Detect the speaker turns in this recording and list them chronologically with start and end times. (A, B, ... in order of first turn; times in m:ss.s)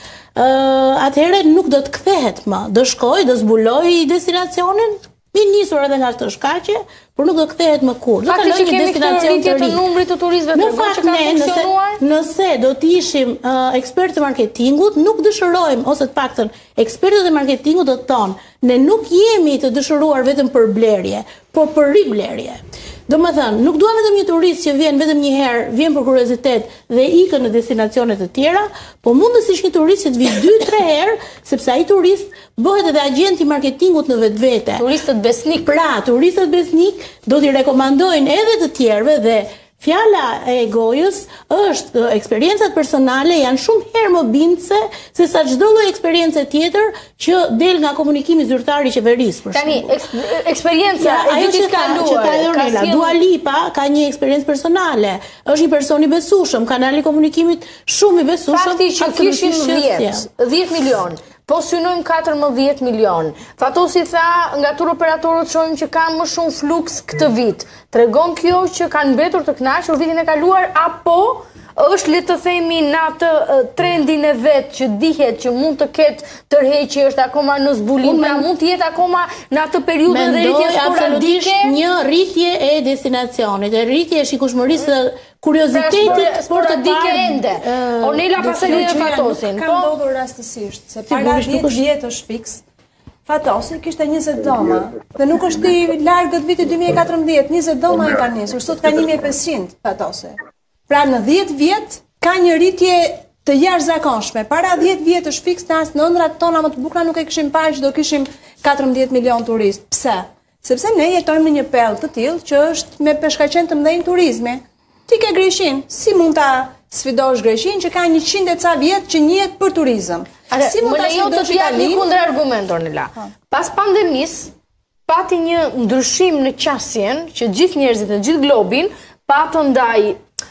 0:00.3-0:09.8 A
0:08.3-0:12.0 B
0:10.5-0:34.8 A
0:34.8-0:35.7 B
0:35.6-0:50.0 A
0:49.5-0:53.2 B
0:51.0-1:00.3 A
0:58.5-1:21.8 B
1:18.0-1:18.5 A
1:20.1-1:29.4 A
1:25.7-1:29.9 B
1:28.6-1:32.6 C
1:31.1-1:31.8 A
1:33.3-1:40.4 C
1:40.9-2:02.1 C
2:00.5-2:04.5 B
2:05.1-2:10.2 B